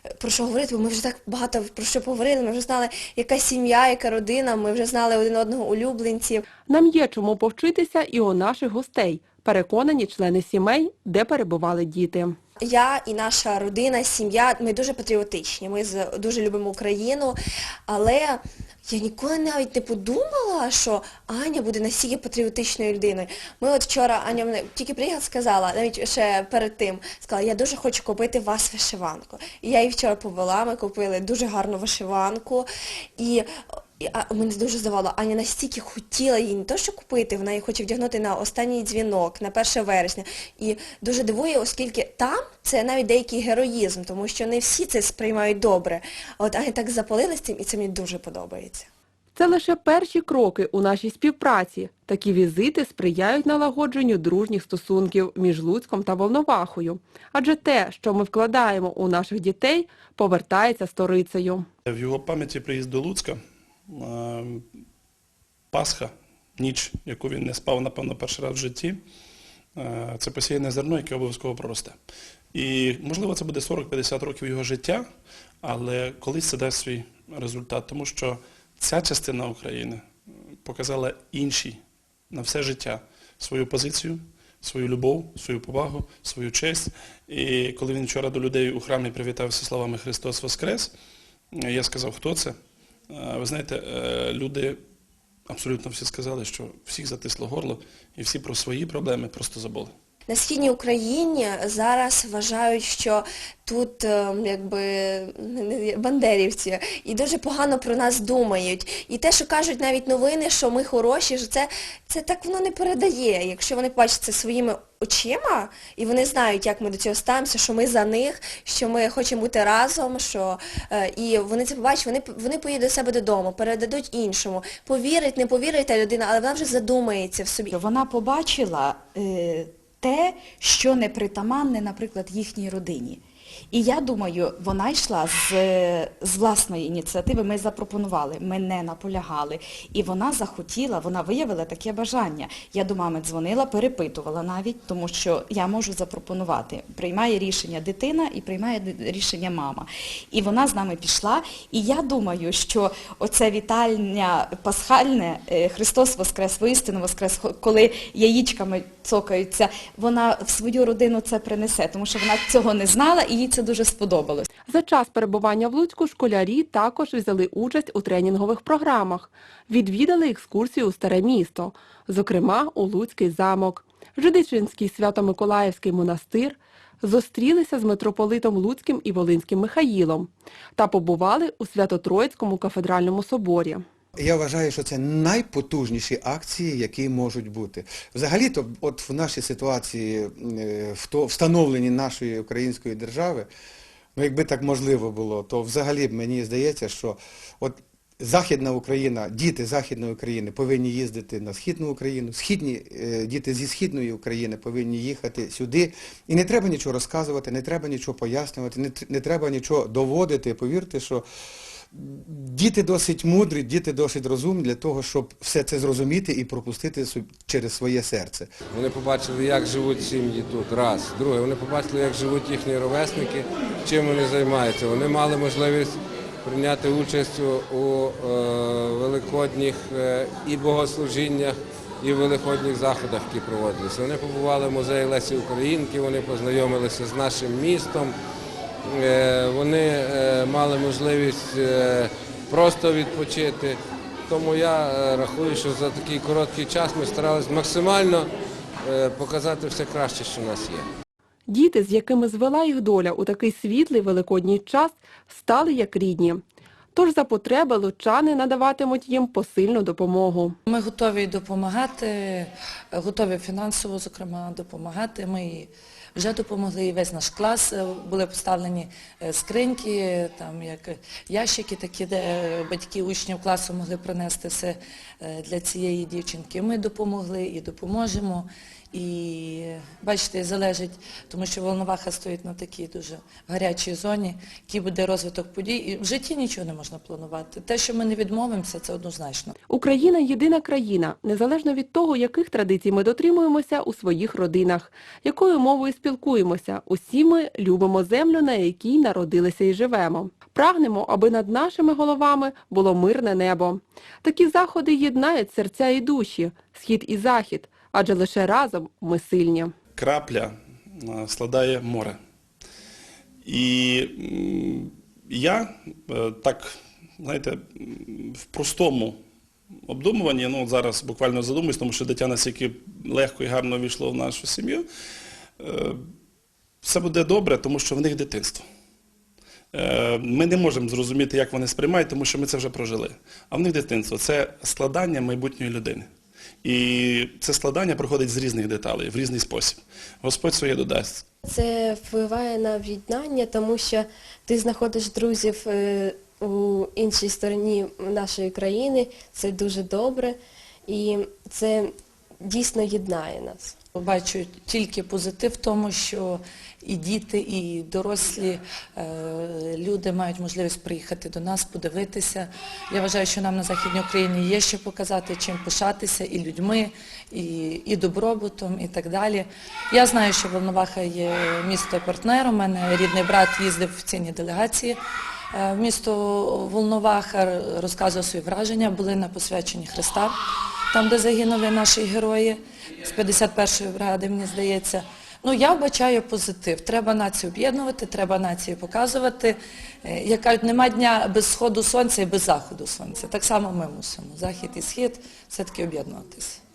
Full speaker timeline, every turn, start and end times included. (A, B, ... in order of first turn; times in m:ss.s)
0:00.2-0:06.4 A
0:06.7-0:12.4 B
0:12.6-0:33.5 A
0:34.0-0:48.9 A
0:49.3-1:01.6 B
1:01.8-1:04.6 C
1:05.7-1:09.0 C
1:09.8-1:12.0 C
1:12.5-1:15.0 C
1:15.6-1:20.1 C
1:20.6-1:30.9 C
1:31.5-1:32.6 C
1:33.1-1:34.8 C
1:35.5-1:39.9 C
1:40.3-2:07.8 A
2:07.7-2:44.5 D
2:44.7-3:03.8 B
3:04.2-3:13.5 E
3:14.2-3:31.2 E
3:31.9-3:38.5 E
3:38.7-3:58.1 F
3:58.8-4:08.3 F
4:08.8-4:10.8 F
4:11.5-4:16.4 B
4:16.9-4:20.6 B
4:20.7-4:49.5 G
4:49.7-5:09.7 B
5:10.0-5:12.2 C
5:13.4-5:19.2 C
5:19.9-5:24.8 C
5:25.6-5:26.0 C
5:26.8-5:28.6 C
5:29.7-5:36.1 C
5:36.6-5:41.2 C
5:41.4-5:53.8 H
5:54.0-6:15.0 G
6:15.5-6:20.4 G
6:20.9-6:36.6 G